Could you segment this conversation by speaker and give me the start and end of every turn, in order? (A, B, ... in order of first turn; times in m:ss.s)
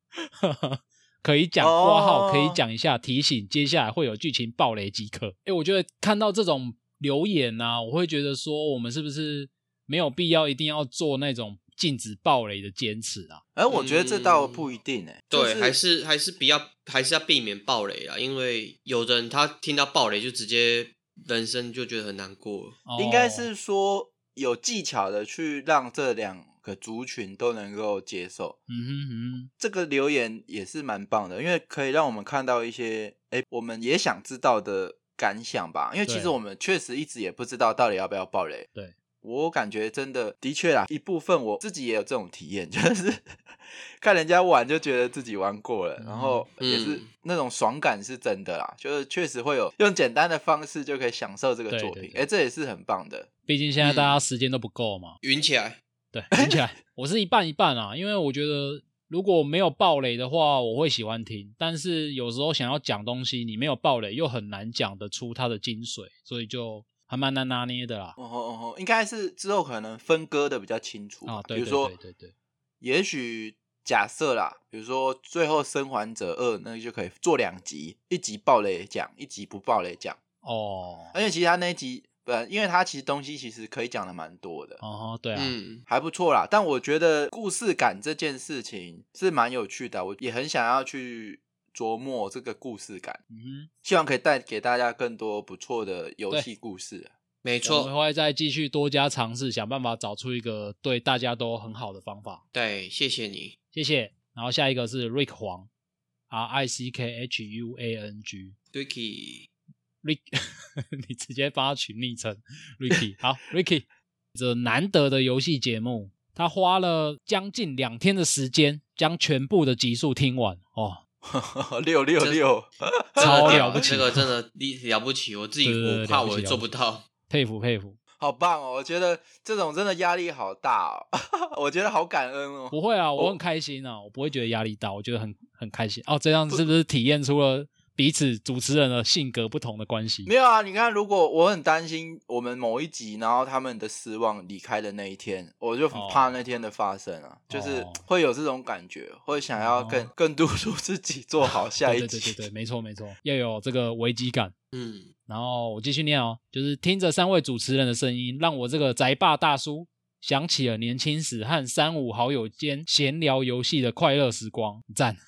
0:00.4-0:13.4 A
0:01.6-0:02.6 B
0:13.6-0:15.8 B
0:13.7-0:14.6 C
0:15.3-0:22.8 C
0:22.9-0:23.5 A
0:23.0-0:28.6 B
0:28.7-0:29.5 A
0:29.6-0:38.7 B
0:36.1-0:36.4 A
0:39.2-0:43.2 B
0:44.0-0:53.3 B
0:46.0-0:46.4 A
0:46.6-0:47.1 C
0:51.7-0:52.2 A
0:53.5-0:55.2 A
0:53.8-0:54.2 C
0:55.2-0:55.8 C
0:56.1-1:08.2 A
0:56.3-0:56.6 B
1:08.2-1:11.9 B
1:11.3-1:12.3 A
1:12.8-1:20.2 B
1:20.4-1:21.1 A
1:21.1-1:24.8 B
1:24.8-1:25.5 A
1:25.4-1:25.8 C
1:25.9-1:33.2 B
1:33.3-1:33.7 A
1:33.8-1:37.1 B
1:37.4-1:37.9 C
1:37.6-1:42.4 A
1:42.5-1:43.6 C
1:43.7-1:45.7 A
1:46.3-1:48.6 A
1:48.7-1:49.5 C
1:50.0-2:01.0 A
2:01.2-2:04.0 B
2:03.2-2:07.1 C
2:03.2-2:04.2 A
2:05.6-2:06.7 A
2:07.3-2:08.0 A
2:08.2-2:13.4 B
2:12.7-2:20.3 A
2:20.3-2:32.4 B
2:25.9-2:26.4 A
2:27.5-2:28.0 A
2:29.6-2:30.1 A
2:31.8-2:34.5 A
2:34.7-2:35.1 C
2:35.3-2:45.2 A